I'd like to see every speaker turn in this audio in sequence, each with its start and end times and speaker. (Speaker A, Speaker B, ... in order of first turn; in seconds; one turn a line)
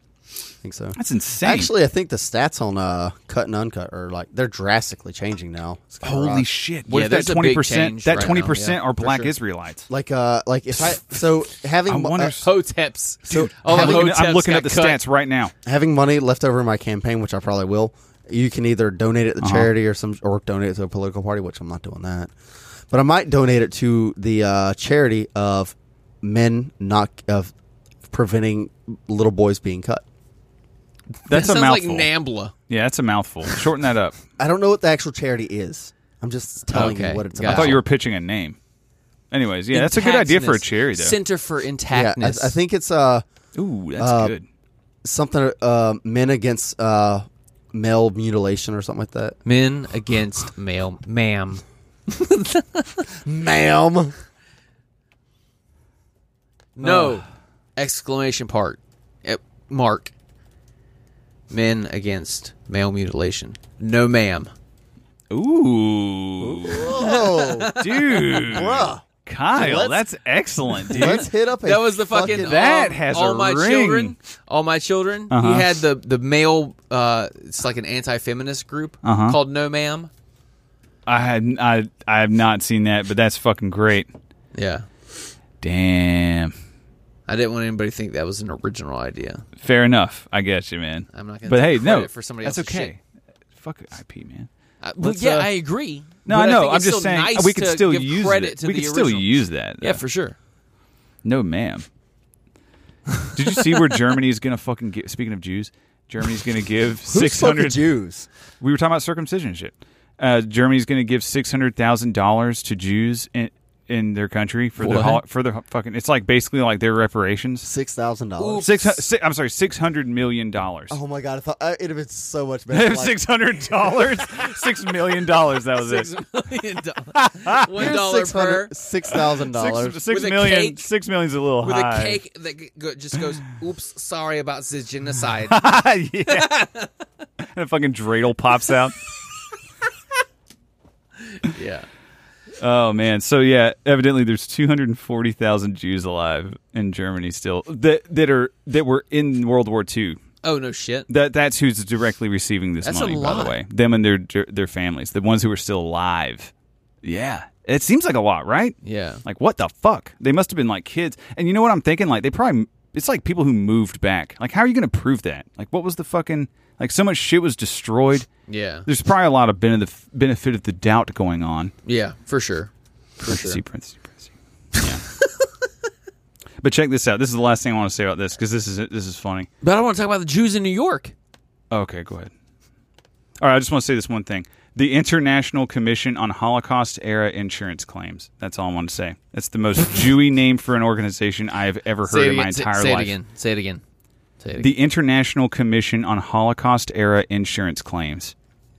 Speaker A: 0.6-6.5
Speaker B: 0.9-1.7
Speaker B: 6.0-9.9
Speaker C: 6.9-8.8
Speaker A: 9.0-9.3
Speaker A: 9.9-12.3
Speaker B: 11.9-12.5
Speaker C: 12.4-15.0
Speaker B: 13.3-15.5
Speaker A: 13.3-14.2
Speaker A: 15.6-22.3
Speaker B: 19.4-19.7
Speaker A: 22.9-27.5
Speaker A: 28.1-30.0
Speaker B: 31.2-32.1
Speaker C: 31.3-32.5
Speaker B: 32.7-34.2
Speaker A: 34.4-37.8
Speaker C: 36.7-37.8
Speaker B: 37.4-38.6
Speaker B: 39.3-41.1
Speaker C: 39.7-42.6
Speaker A: 41.9-43.2
Speaker B: 43.5-44.5
Speaker A: 44.0-44.3
Speaker A: 45.0-49.4
Speaker C: 49.4-53.0
Speaker A: 53.2-54.1
Speaker C: 56.8-57.2
Speaker B: 56.8-57.2
Speaker C: 57.8-60.1
Speaker C: 61.5-64.5
Speaker B: 65.3-67.0
Speaker A: 66.4-67.7
Speaker C: 66.8-68.7
Speaker B: 67.7-71.2
Speaker A: 68.4-70.0
Speaker A: 70.9-72.5
Speaker C: 70.9-80.1
Speaker B: 72.3-74.1
Speaker B: 75.3-75.7
Speaker B: 79.0-79.4
Speaker B: 81.0-84.1
Speaker C: 84.5-84.8
Speaker B: 85.6-86.5
Speaker C: 87.3-89.5
Speaker B: 89.6-93.0
Speaker C: 91.1-92.9
Speaker B: 93.5-95.5
Speaker C: 94.8-100.3
Speaker B: 96.2-100.0
Speaker B: 101.2-101.8
Speaker B: 103.3-107.8
Speaker A: 107.1-108.3
Speaker B: 108.6-117.7
Speaker A: 117.6-118.7
Speaker C: 118.4-119.0
Speaker B: 118.6-121.0
Speaker A: 120.9-123.2
Speaker B: 122.7-126.1
Speaker C: 125.8-128.7
Speaker B: 127.1-127.9
Speaker A: 127.7-130.0
Speaker B: 129.1-132.2
Speaker C: 130.1-130.9
Speaker C: 131.6-135.7
Speaker B: 135.5-136.5
Speaker C: 136.3-136.9
Speaker B: 137.4-139.0
Speaker C: 141.4-141.9
Speaker B: 142.6-150.2
Speaker C: 150.4-151.1
Speaker B: 151.1-156.5
Speaker C: 152.8-153.6
Speaker B: 157.0-168.3
Speaker C: 158.8-159.2
Speaker C: 168.5-168.9
Speaker B: 168.8-171.7
Speaker C: 171.8-173.6
Speaker B: 173.2-175.0
Speaker B: 176.6-179.5
Speaker C: 179.6-181.1
Speaker B: 181.7-182.3
Speaker B: 183.4-193.2
Speaker C: 192.1-193.8
Speaker C: 194.4-194.7
Speaker B: 194.6-198.3